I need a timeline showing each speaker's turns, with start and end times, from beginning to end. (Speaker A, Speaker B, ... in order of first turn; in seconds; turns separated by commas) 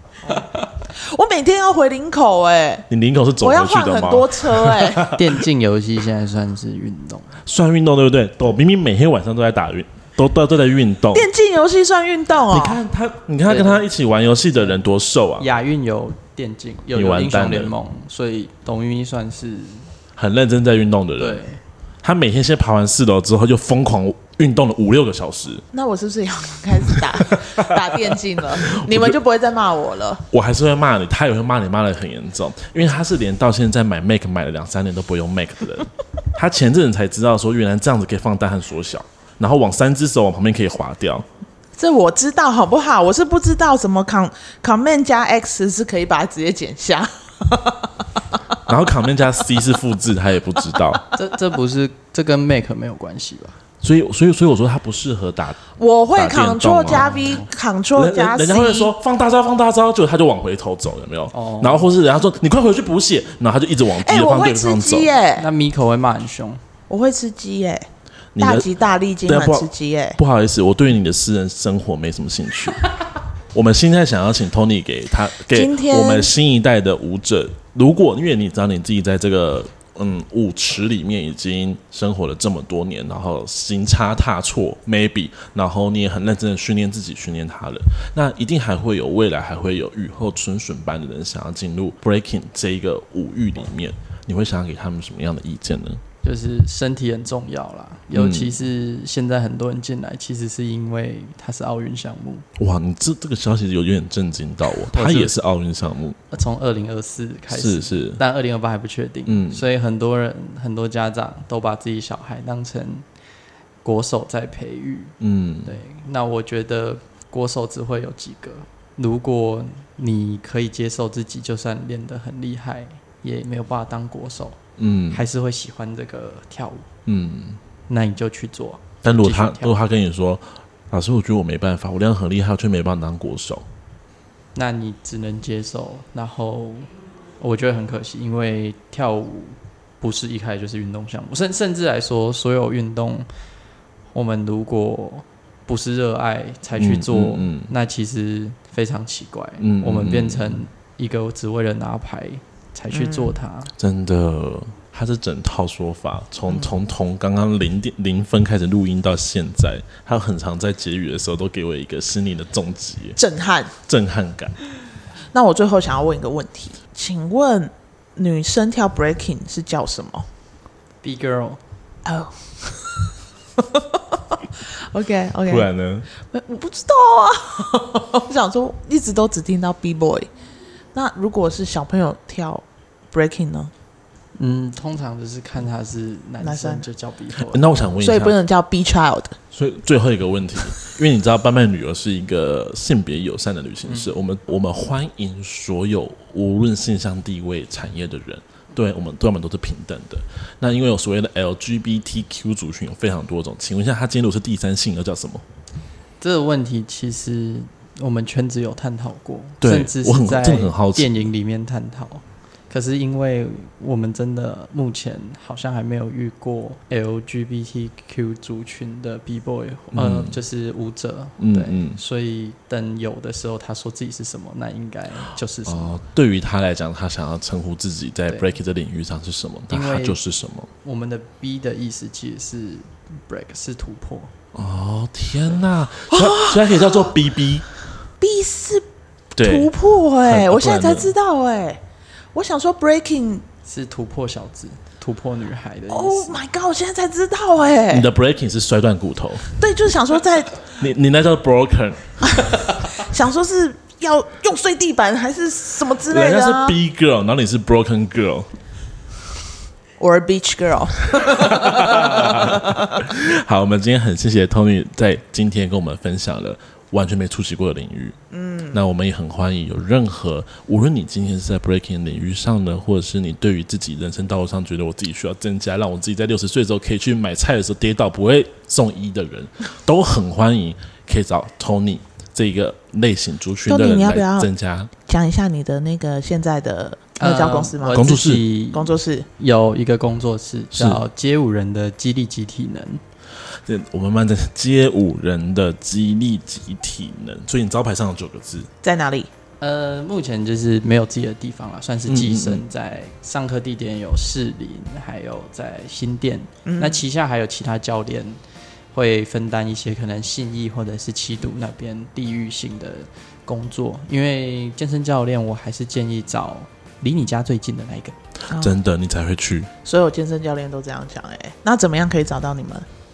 Speaker A: 0.2-2.9, Speaker B: 2.9-5.2, Speaker A: 3.4-5.1, Speaker C: 5.1-7.4, Speaker B: 7.5-11.3, Speaker A: 11.1-12.8, Speaker B: 12.5-15.5, Speaker C: 13.4-13.9, Speaker C: 15.4-19.9, Speaker B: 16.9-17.7, Speaker B: 20.1-21.4, Speaker C: 21.2-21.6, Speaker B: 22.0-25.6, Speaker A: 25.7-30.2, Speaker B: 26.9-29.1, Speaker B: 30.3-41.2, Speaker A: 41.8-48.4, Speaker B: 48.7-51.0, Speaker A: 50.8-51.1, Speaker C: 51.1-53.6, Speaker B: 53.8-55.6, Speaker A: 55.8-58.9, Speaker B: 56.1-57.4, Speaker C: 56.9-57.5, Speaker B: 57.9-65.2, Speaker C: 61.3-61.9, Speaker A: 64.0-65.5, Speaker C: 65.3-66.6, Speaker A: 66.9-67.9, Speaker B: 68.3-72.9, Speaker A: 68.4-70.2, Speaker B: 73.5-96.0, Speaker A: 75.5-76.3, Speaker C: 96.2-102.5, Speaker B: 98.1-98.6, Speaker B: 102.6-106.2, Speaker C: 104.9-105.4, Speaker C: 106.3-113.0, Speaker B: 107.5-108.2, Speaker B: 109.3-109.6, Speaker C: 113.8-126.9, Speaker B: 115.2-115.8, Speaker B: 124.8-125.2, Speaker B: 127.0-127.6, Speaker C: 127.9-129.8, Speaker B: 129.0-133.7, Speaker C: 134.5-143.3, Speaker C: 144.1-153.7, Speaker B: 146.7-147.7, Speaker B: 149.6-150.6, Speaker A: 152.9-153.4, Speaker B: 153.8-163.2, Speaker A: 156.5-156.7, Speaker A: 163.2-163.7, Speaker B: 163.8-164.6, Speaker A: 165.3-170.3, Speaker C: 171.0-171.6, Speaker A: 172.0-180.3, Speaker B: 175.5-176.1, Speaker A: 180.9-183.7, Speaker C: 184.3-187.9, Speaker A: 186.4-186.9, Speaker B: 187.4-188.3, Speaker A: 187.9-189.4, Speaker B: 189.5-205.4, Speaker C: 193.8-194.1, Speaker C: 206.2-226.0, Speaker B: 209.6-211.2, Speaker B: 219.9-220.4, Speaker B: 221.4-222.0, Speaker B: 225.7-230.7, Speaker C: 229.7-230.2, Speaker C: 230.8-234.3, Speaker B: 234.5-237.7, Speaker A: 236.2-236.6, Speaker A: 238.2-241.8, Speaker B: 239.3-239.7, Speaker B: 240.2-241.1, Speaker A: 242.3-243.4, Speaker C: 243.7-246.4, Speaker A: 245.9-248.1, Speaker B: 247.9-249.5, Speaker A: 249.6-250.7, Speaker B: 250.7-252.4, Speaker A: 252.4-256.8, Speaker B: 256.1-258.5, Speaker A: 260.0-263.0, Speaker B: 261.2-268.2, Speaker A: 268.3-268.8, Speaker B: 268.7-284.9, Speaker A: 283.7-284.5, Speaker A: 285.1-288.1, Speaker C: 287.2-293.0, Speaker B: 287.9-288.4, Speaker A: 288.7-289.3, Speaker B: 290.7-291.0, Speaker B: 293.6-298.7, Speaker A: 298.8-299.3, Speaker C: 299.6-308.4, Speaker B: 302.1-302.6, Speaker A: 306.6-307.0, Speaker C: 308.9-318.1, Speaker A: 318.5-318.7, Speaker B: 318.5-319.7, Speaker A: 319.8-322.9